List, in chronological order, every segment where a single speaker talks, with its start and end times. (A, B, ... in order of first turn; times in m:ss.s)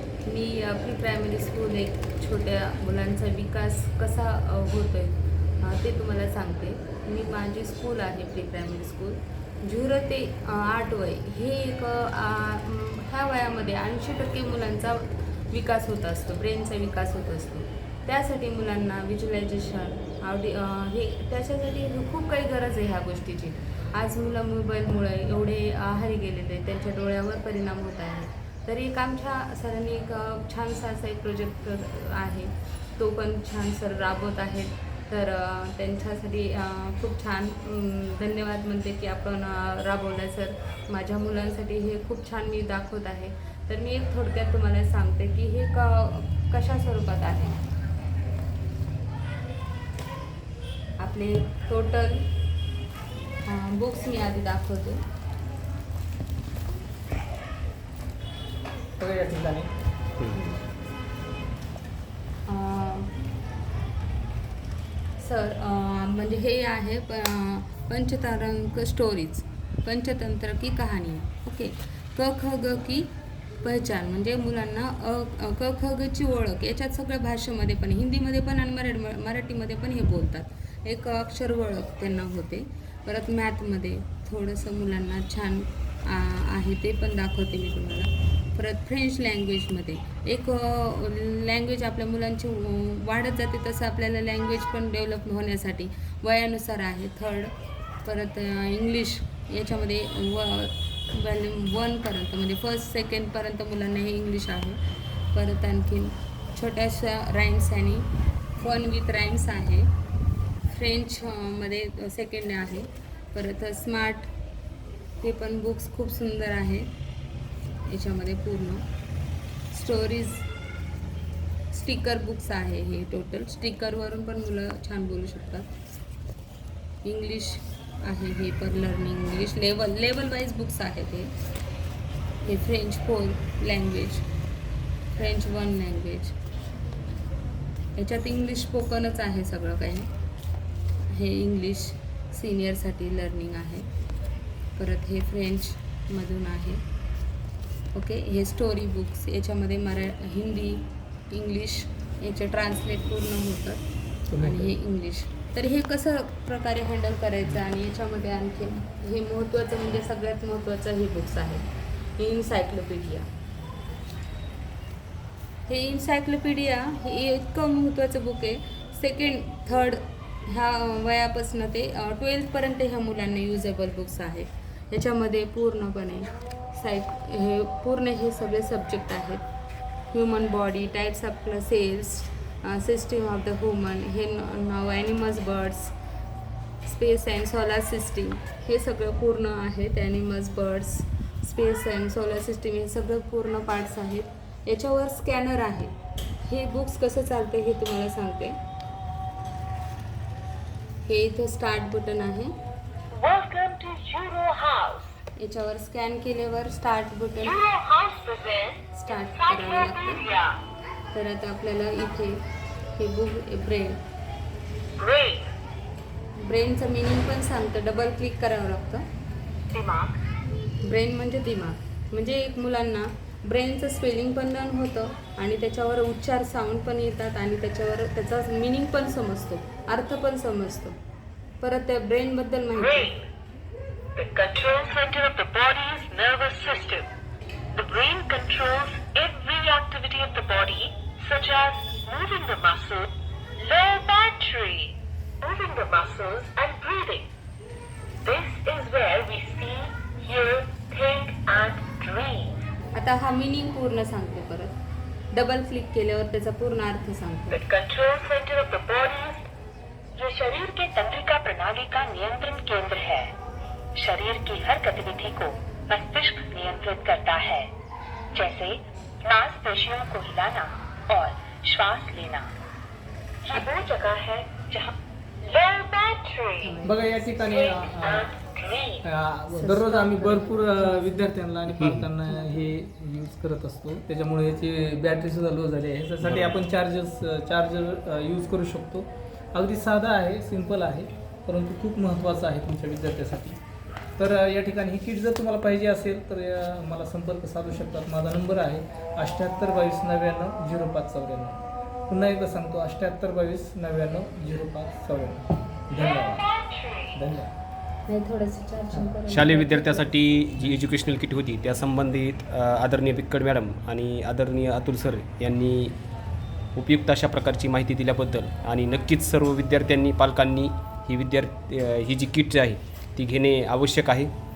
0:00.2-0:47.6 A
0:51.0-0:52.3 A
0:53.4-0:55.0 A
0:59.0-0:59.7 B
1:00.3-1:00.6 A
1:02.5-1:03.1 A
1:05.2-1:13.1 A
1:13.6-1:37.5 A
1:38.0-1:44.8 A
1:45.3-1:49.9 A
1:50.6-1:54.3 A
1:55.2-1:56.9 A
1:57.9-1:58.8 A
1:59.7-2:00.5 A
2:01.7-2:05.8 A
2:07.0-2:11.3 A
2:12.4-2:14.2 A
2:15.1-2:16.3 A
2:18.0-2:20.1 A
2:21.1-2:23.9 A
2:24.8-2:26.8 A
2:27.9-2:33.8 A
2:34.3-2:34.7 B
2:34.4-2:41.6 A
2:42.2-2:43.3 A
2:45.7-2:59.4 A
3:00.1-3:05.9 A
3:06.8-3:15.9 A
3:16.5-3:18.6 A
3:21.0-3:22.6 A
3:23.1-3:25.2 C
3:25.4-3:27.6 A
3:27.4-3:30.6 C
3:28.9-3:30.2 A
3:31.1-3:32.4 A
3:33.0-3:34.0 A
3:35.0-3:35.5 C
3:36.4-3:39.0 A
3:39.7-3:40.2 C
3:40.8-3:51.0 A
3:51.6-3:53.1 A
3:52.7-3:53.2 C
3:54.2-3:57.1 C
3:57.7-4:07.3 C
4:08.2-4:12.6 C
4:12.9-4:14.8 A
4:15.3-4:17.6 A
4:17.5-4:19.5 C
4:20.2-4:23.3 C
4:24.0-4:27.7 C
4:28.3-4:32.5 C
4:33.4-4:36.8 C
4:36.6-4:37.4 A
4:36.8-4:38.3 B
4:37.4-4:39.0 C
4:39.0-4:53.6 B
4:39.5-4:41.5 A
4:41.8-4:42.1 D
4:42.2-4:42.8 A
4:46.2-4:46.6 D
4:54.2-5:06.5 B
5:06.0-5:07.2 C
5:07.1-5:07.5 B
5:08.1-5:10.4 A
5:08.9-5:09.2 B
5:09.3-5:16.0 D
5:16.8-5:24.3 D